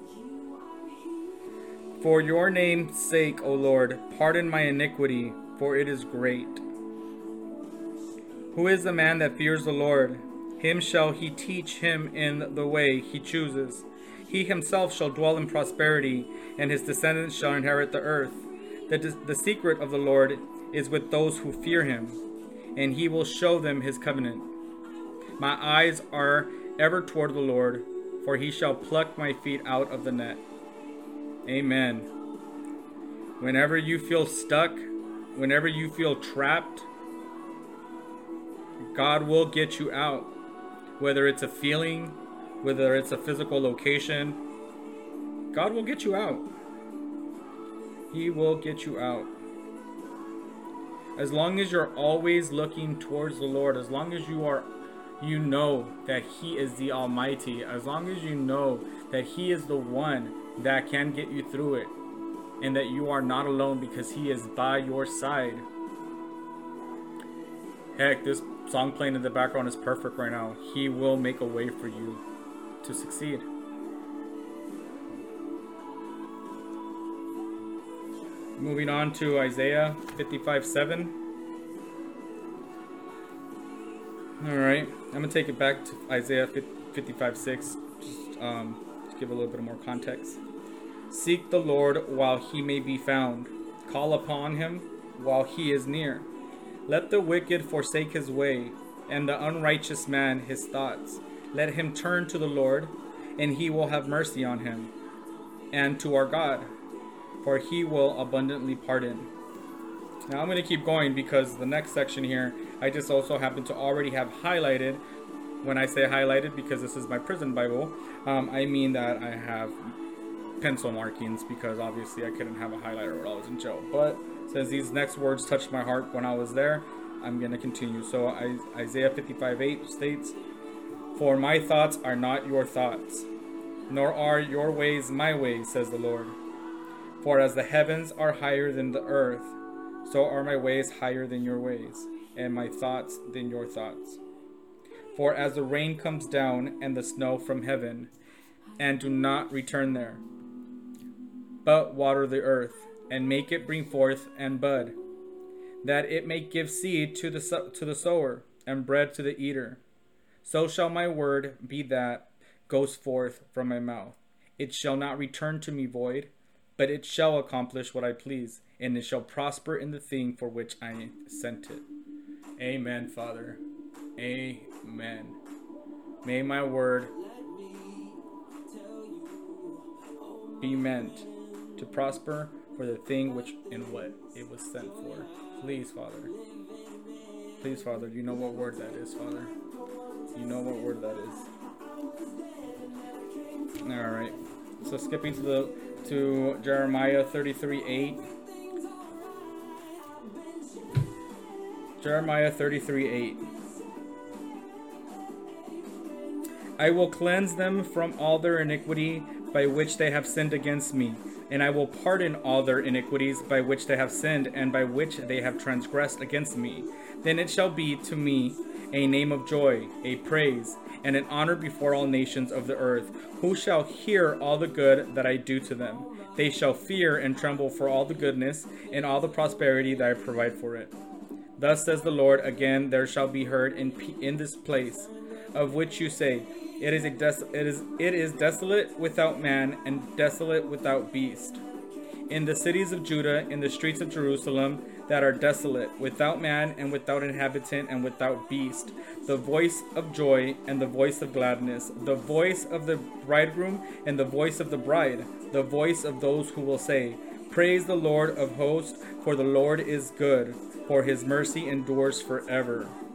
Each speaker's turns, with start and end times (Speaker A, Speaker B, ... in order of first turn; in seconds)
Speaker A: 2.0-6.6, 8.5-22.2, 22.7-24.5, 25.4-30.4, 31.4-32.1, 33.4-36.9, 38.9-40.3, 41.0-44.4, 45.5-46.5, 48.1-49.3, 51.1-62.0, 62.6-65.7, 67.9-72.2, 72.8-73.5, 78.6-81.2, 84.4-90.4, 91.1-96.3, 96.8-104.9, 105.7-106.7, 107.4-109.3, 110.3-115.0, 115.6-119.9, 120.6-130.4, 131.1-133.3, 133.9-136.4, 137.2-144.2, 145.1-148.1, 148.8-150.2, 151.6-155.0, 155.8-159.8, 160.4-171.8, 172.6-173.6, 174.2-175.4, 176.2-177.2, 180.6-186.3, 187.6-189.5, 190.3-191.5, 193.8-198.3, 202.0-203.5, 206.8-230.9, 231.6-241.6, 242.3-263.0